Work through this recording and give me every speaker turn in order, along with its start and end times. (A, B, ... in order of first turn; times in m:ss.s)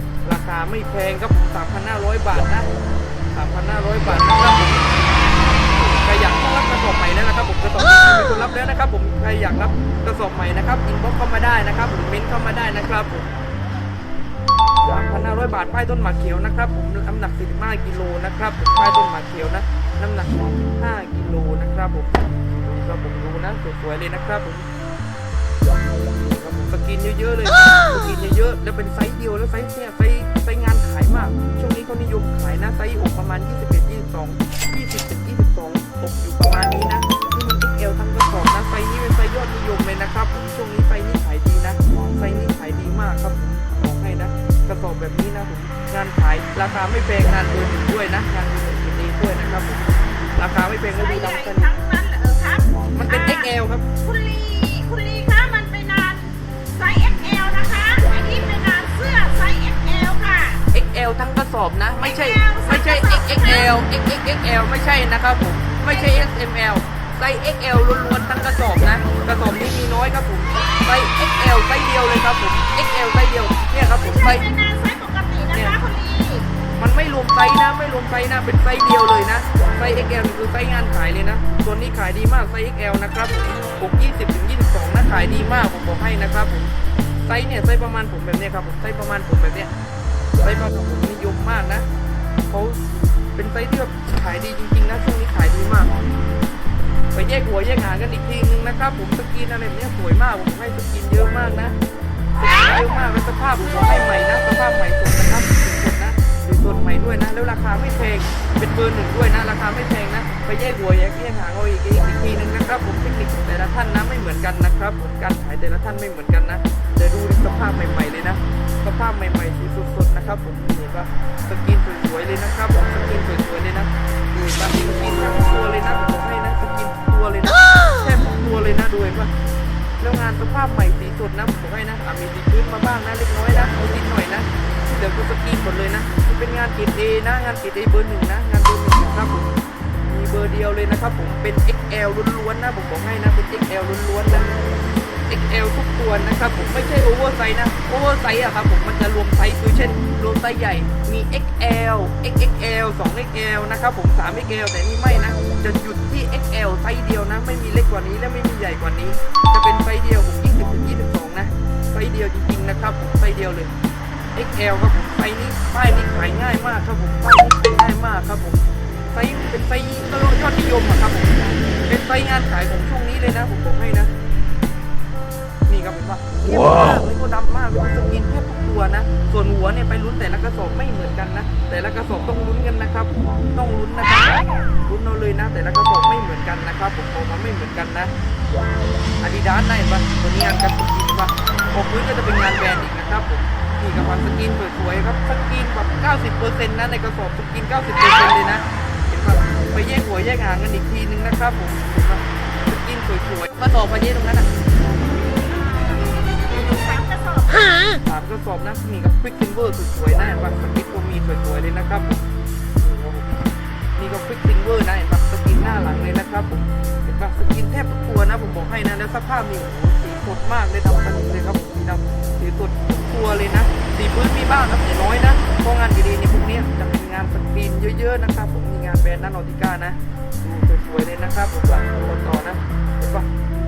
0:00.2-0:02.7 A
0:03.3-0:13.3 A
0:14.8-0:24.6 A
0:26.2-0:51.7 A
0:50.9-0:53.5 B
0:52.9-0:53.8 A
0:54.0-1:00.6 B
1:00.7-1:14.4 A
1:02.0-1:03.7 B
1:05.9-1:06.2 B
1:13.8-1:16.5 B
1:15.5-1:15.8 A
1:16.8-1:26.7 A
1:27.3-1:29.7 A
1:30.4-1:31.8 A
1:32.5-1:32.8 A
1:33.4-1:35.9 A
1:37.1-1:41.7 A
1:42.4-2:09.3 A
2:10.0-2:19.5 A
2:20.0-2:24.6 A
2:25.3-2:43.7 A
2:44.3-2:48.6 A
2:49.1-2:54.1 A
2:55.7-3:08.1 A
3:09.2-3:24.5 A
3:25.5-3:28.0 B
3:28.0-3:32.2 A
3:32.8-3:33.3 A
3:34.0-3:53.3 A